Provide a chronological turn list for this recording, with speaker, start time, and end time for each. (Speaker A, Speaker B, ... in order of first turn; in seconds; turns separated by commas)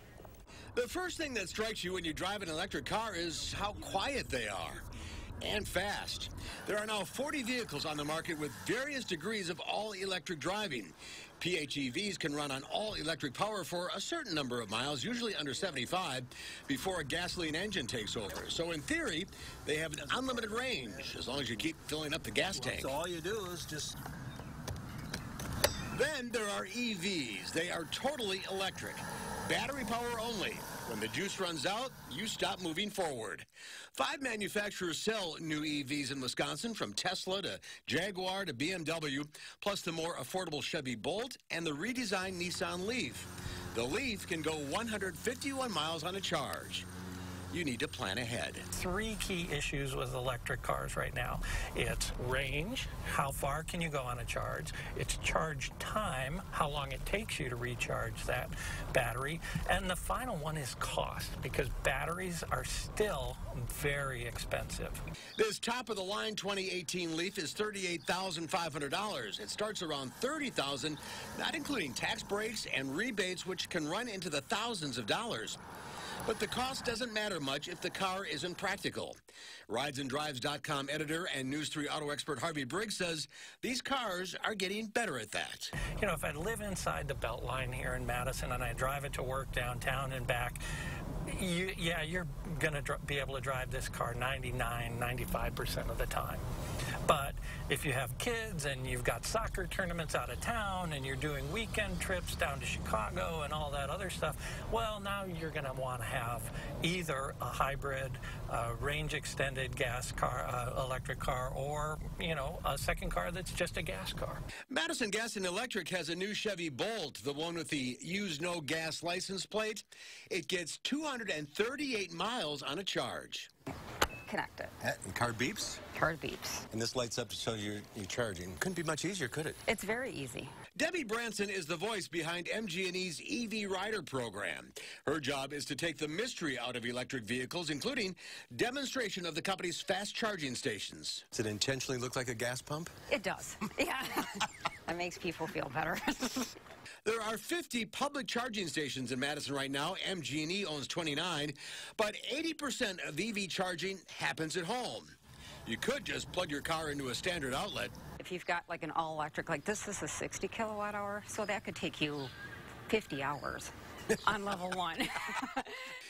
Speaker A: 0.7-4.8, Speaker A: 5.4-23.0, Speaker B: 20.3-20.6, Speaker B: 22.5-24.0, Speaker A: 25.9-46.9, Speaker A: 47.5-48.7, Speaker C: 48.7-65.0, Speaker A: 65.4-75.6, Speaker A: 76.2-79.2, Speaker A: 79.7-85.7, Speaker C: 86.0-90.6, Speaker C: 91.3-96.5, Speaker C: 97.1-114.4, Speaker A: 114.7-123.5, Speaker D: 124.3-124.7, Speaker A: 124.8-125.8, Speaker D: 125.9-126.7, Speaker A: 126.7-129.6, Speaker B: 128.4-129.1, Speaker D: 129.7-130.5, Speaker A: 130.8-142.4, Speaker B: 141.4-142.9, Speaker D: 143.1-146.6, Speaker A: 147.1-155.2, Speaker A: 155.7-158.0, Speaker D: 158.2-162.3, Speaker D: 162.9-165.9